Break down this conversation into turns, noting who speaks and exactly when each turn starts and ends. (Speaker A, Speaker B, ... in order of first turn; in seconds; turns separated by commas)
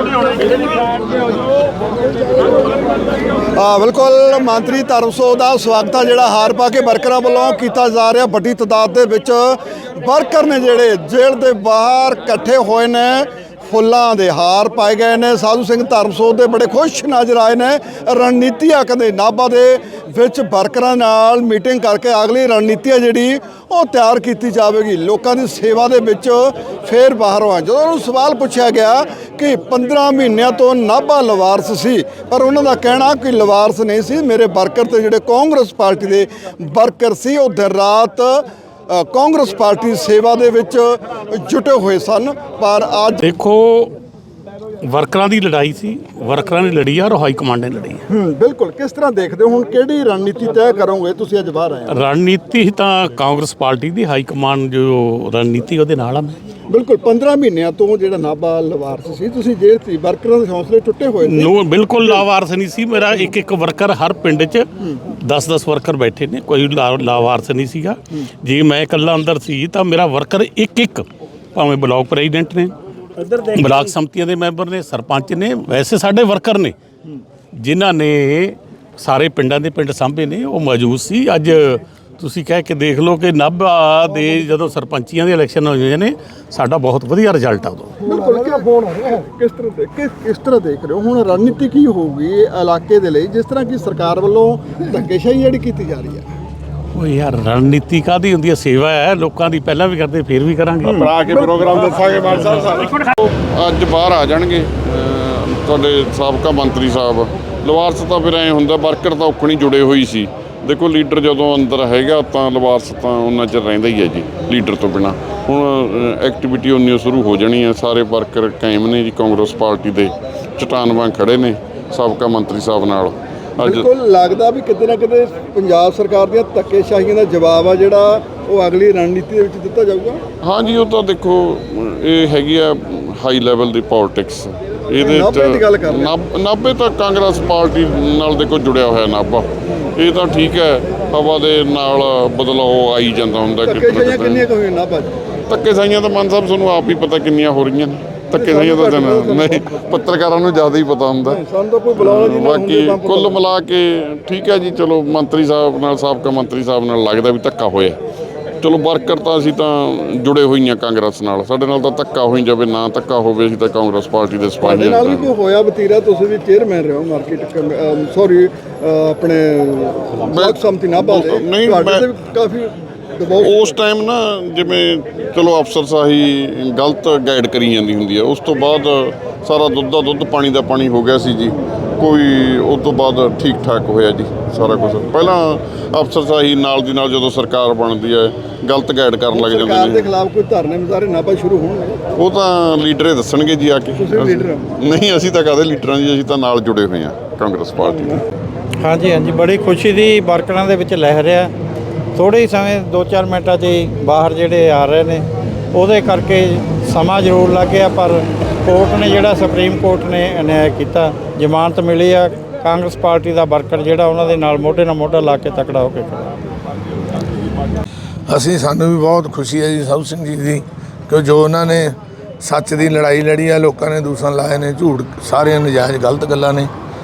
Speaker A: 3.5-43.3, Speaker B: 43.2-43.9, Speaker B: 44.8-48.0, Speaker A: 48.1-52.0, Speaker B: 51.9-56.4, Speaker A: 56.7-62.2, Speaker B: 61.2-76.8, Speaker B: 77.6-87.9, Speaker A: 88.0-96.2, Speaker B: 96.9-101.1, Speaker C: 100.9-123.8, Speaker A: 123.6-130.2, Speaker C: 130.4-144.5, Speaker A: 134.9-136.1, Speaker A: 143.6-145.1, Speaker C: 145.5-151.4, Speaker A: 148.3-149.8, Speaker A: 151.2-153.5, Speaker C: 151.9-158.0, Speaker C: 158.6-165.3, Speaker A: 164.6-173.7, Speaker C: 170.2-172.1, Speaker C: 173.4-190.1, Speaker A: 189.3-192.0, Speaker C: 192.2-198.2, Speaker A: 193.9-194.7, Speaker A: 197.8-198.2, Speaker D: 198.8-201.5, Speaker D: 202.1-216.3, Speaker E: 218.3-226.7